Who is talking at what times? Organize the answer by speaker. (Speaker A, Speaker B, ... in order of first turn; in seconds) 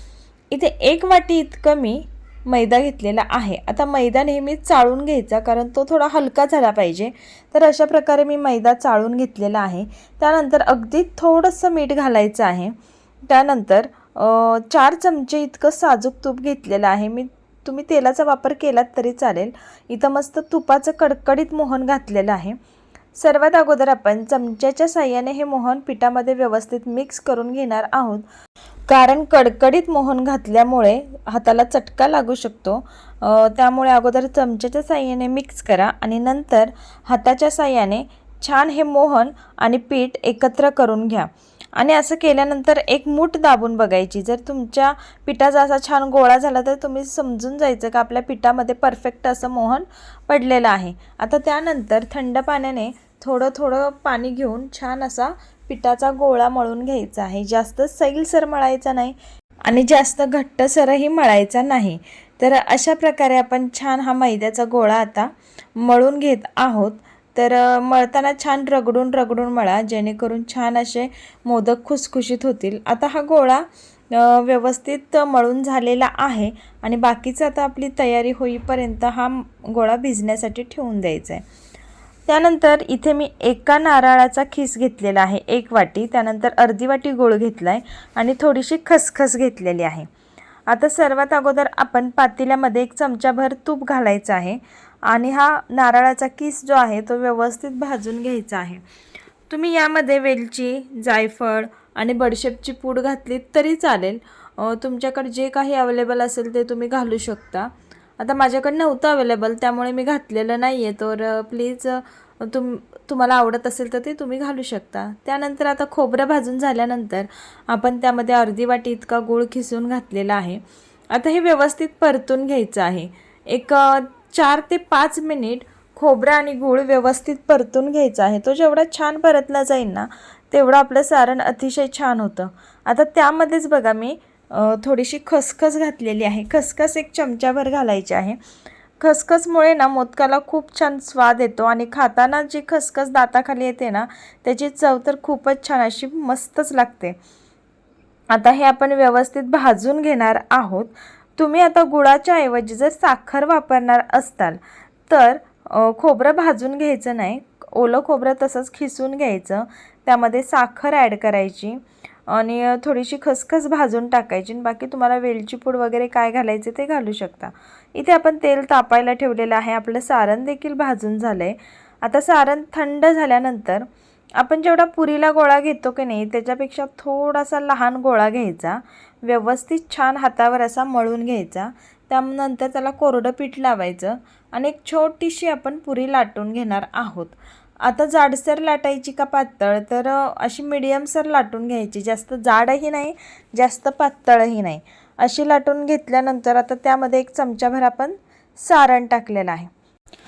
Speaker A: 0.5-12.8, 13.3-22.6, 23.1-28.2, 28.9-81.4, 82.3-90.1, 90.7-98.8, 99.5-120.6, 121.1-138.4, 139.0-147.2, 148.3-173.9, 174.4-199.7